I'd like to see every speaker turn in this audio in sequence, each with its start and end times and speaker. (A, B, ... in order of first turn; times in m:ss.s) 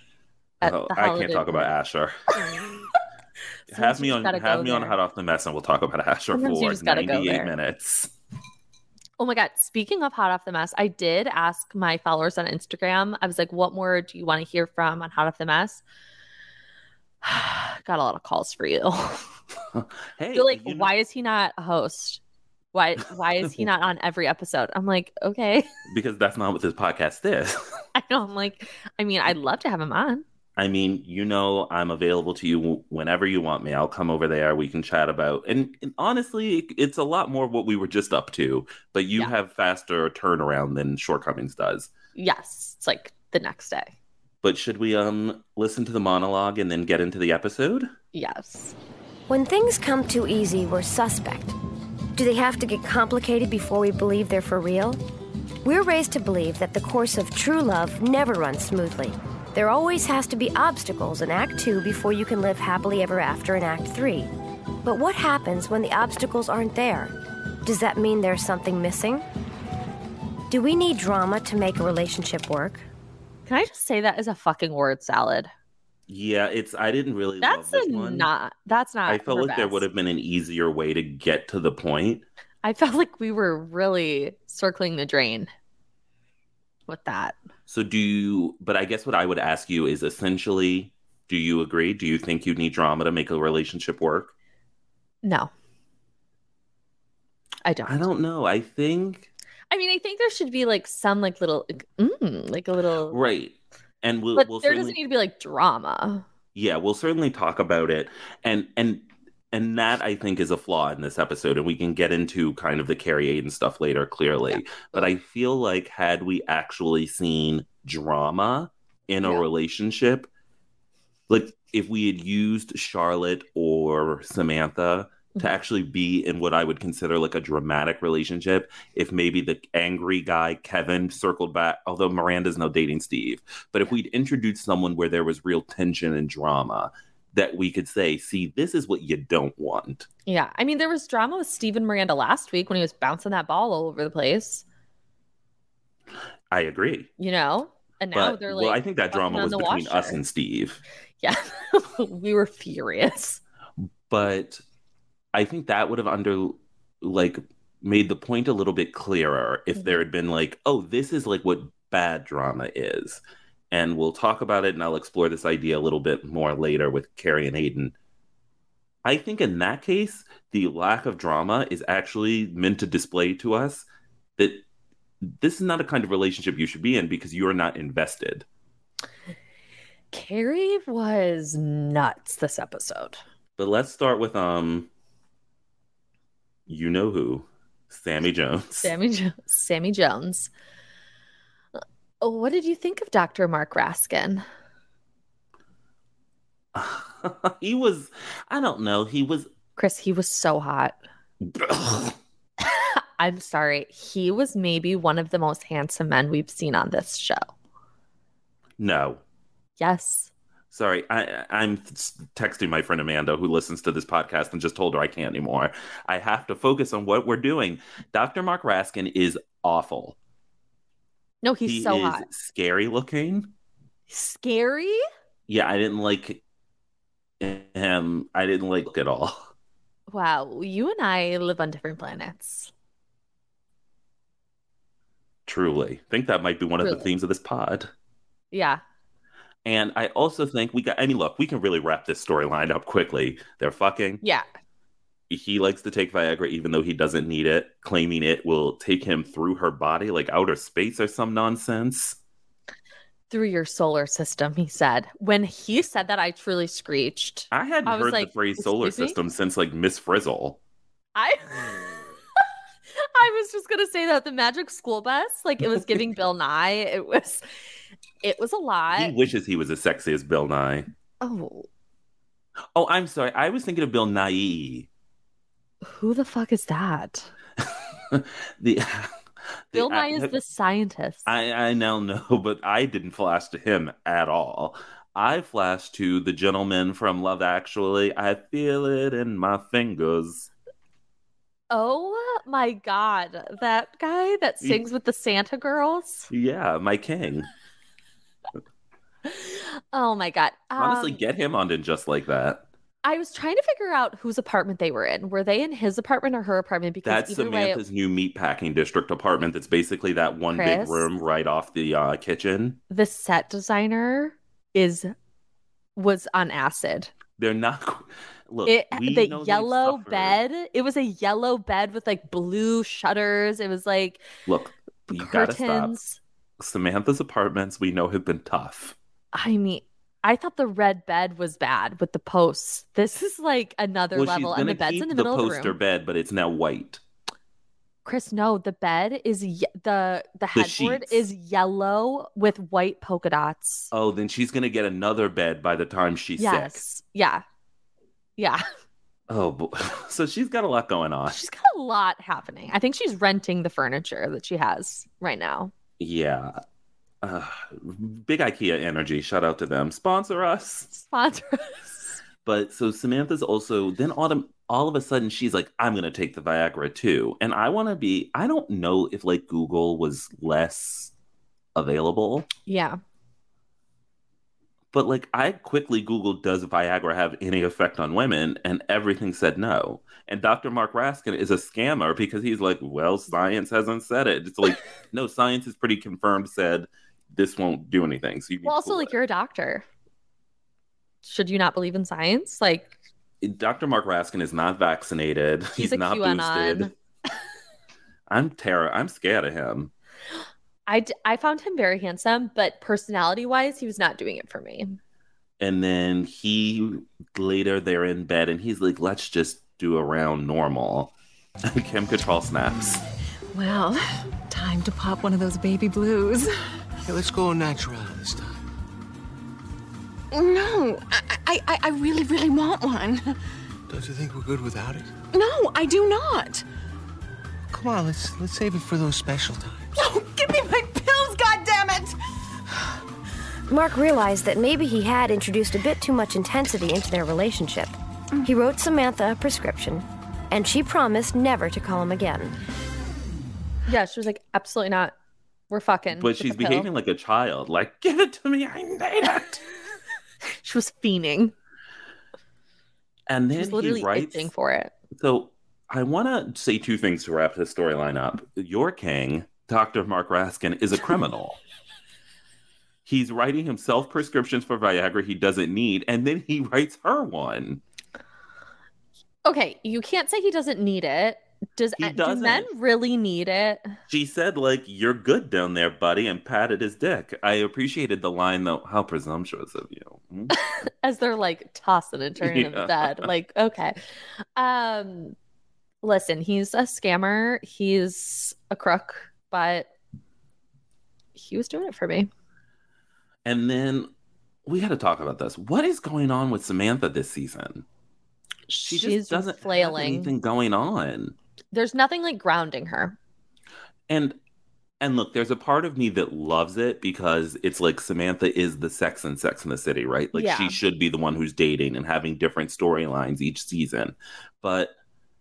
0:00.6-0:02.7 A
0:00.6-0:01.7 B
0:02.4-0:02.7 B
0:03.7-0:08.1 A
0:03.7-0:05.0 B
0:06.3-0:07.6 B
0:09.2-0:15.8 B
0:17.2-0:19.2 B
0:19.7-0:20.9 A
0:20.3-0:22.2 B
0:22.7-0:25.7 B
0:23.4-0:23.7 A
0:25.9-0:27.6 A
0:28.0-0:30.2 B
0:30.6-0:41.9 A
0:42.2-0:43.9 B
0:44.4-0:47.9 A
0:48.1-0:48.7 B
0:49.3-0:51.5 C
0:52.2-0:55.0 C
0:55.6-1:04.3 C
1:04.8-1:09.3 C
1:10.5-1:12.8 C
1:13.5-1:15.5 B
1:16.1-1:18.3 A
1:17.4-1:19.8 B
1:19.1-1:22.2 A
1:22.6-1:25.5 B
1:26.9-1:27.4 B
1:27.7-1:34.3 A
1:35.2-1:35.5 B
1:37.6-1:38.0 B
1:37.9-1:39.3 A
1:39.7-1:43.2 B
1:43.1-1:45.0 A
1:44.4-1:46.2 B
1:46.6-2:00.3 A
1:54.5-1:55.1 B
2:01.3-2:20.1 A
2:20.3-2:24.6 B
2:26.5-2:27.1 A
2:27.2-2:30.2 B
2:28.1-2:30.8 A
2:31.2-2:33.4 B
2:34.1-2:34.6 A
2:35.3-2:47.9 A
2:49.0-2:53.9 A
2:54.4-2:54.6 A
2:55.4-2:58.4 A
3:00.1-3:03.2 B
3:03.6-3:04.9 A
3:06.7-3:08.9 A
3:08.8-3:10.5 B
3:12.2-3:14.4 B
3:16.8-3:19.5 A
3:19.8-3:21.0 B
3:21.5-3:22.2 A
3:22.6-3:27.5 B
3:28.8-3:29.2 A
3:29.8-3:30.3 B
3:30.7-3:40.2 A
3:41.4-3:42.3 B
3:41.6-3:43.5 A
3:44.1-3:45.0 B
3:45.5-3:46.4 A
3:47.4-3:49.5 A
3:50.1-3:52.7 B
3:55.5-3:57.9 A
3:56.8-3:57.1 B
3:58.5-3:58.8 B
3:59.6-4:04.2 A
4:05.3-4:12.2 A
4:13.3-4:19.2 B
4:17.5-4:20.6 A
4:21.2-4:22.1 B
4:23.0-4:27.4 B
4:28.2-4:29.1 B
4:28.9-4:30.9 A
4:31.2-4:31.7 B
4:32.8-4:34.9 A
4:35.8-4:37.3 B
4:38.1-4:39.2 A
4:39.7-4:40.3 A
4:39.7-4:41.3 B
4:41.3-4:50.5 A
4:51.7-4:56.3 B
4:56.3-4:57.5 A
4:59.3-5:01.2 B
5:00.8-5:02.6 A
5:03.0-5:07.8 B
5:07.0-5:12.8 A
5:10.5-5:11.1 B
5:12.9-5:15.1 B
5:16.0-5:17.1 B
5:17.4-5:20.4 A
5:18.7-5:24.2 B
5:24.5-5:26.0 A
5:25.1-5:26.2 B
5:26.6-5:29.0 A
5:29.3-5:35.8 B
5:34.2-5:37.0 A
5:38.0-5:43.9 B
5:40.6-5:41.2 A
5:43.9-5:46.8 A
5:46.4-5:47.4 B
5:48.4-5:48.6 B
5:49.3-5:51.4 A
5:51.3-5:55.7 B
5:56.0-5:56.6 A
5:57.2-6:00.9 A
6:01.0-6:02.2 B
6:02.4-6:11.1 A
6:11.8-6:12.5 A
6:12.7-6:13.0 B
6:14.9-6:29.1 A
6:28.6-6:29.8 B
6:31.2-6:32.9 B
6:33.4-6:36.9 A
6:35.8-6:36.9 B
6:38.3-6:39.9 A
6:40.9-6:45.0 B
6:45.6-6:51.1 A
6:51.6-6:53.0 A
6:53.5-6:56.5 D
6:57.0-6:58.7 E
7:00.3-7:03.4 D
7:03.9-7:05.1 E
7:05.3-7:06.6 D
7:07.7-7:09.9 E
7:10.0-7:12.2 D
7:13.7-7:22.6 C
7:23.9-7:25.1 B
7:25.7-7:26.9 B
7:26.1-7:29.6 A
7:30.6-7:31.5 B
7:33.3-7:34.5 A
7:33.6-7:34.9 B
7:35.2-7:41.6 A
7:43.1-7:47.8 A
7:49.4-7:53.9 B
7:52.0-7:52.7 A
7:54.1-8:00.6 A
8:00.5-8:04.0 B
8:02.4-8:03.3 A
8:04.6-8:05.4 B
8:06.0-8:09.9 B
8:11.4-8:12.3 B
8:13.4-8:14.1 A
8:14.7-8:17.8 A
8:18.7-8:20.3 B
8:18.8-8:21.4 A
8:21.7-8:23.2 B
8:24.1-8:24.4 A
8:25.0-8:34.9 A
8:30.3-8:30.8 B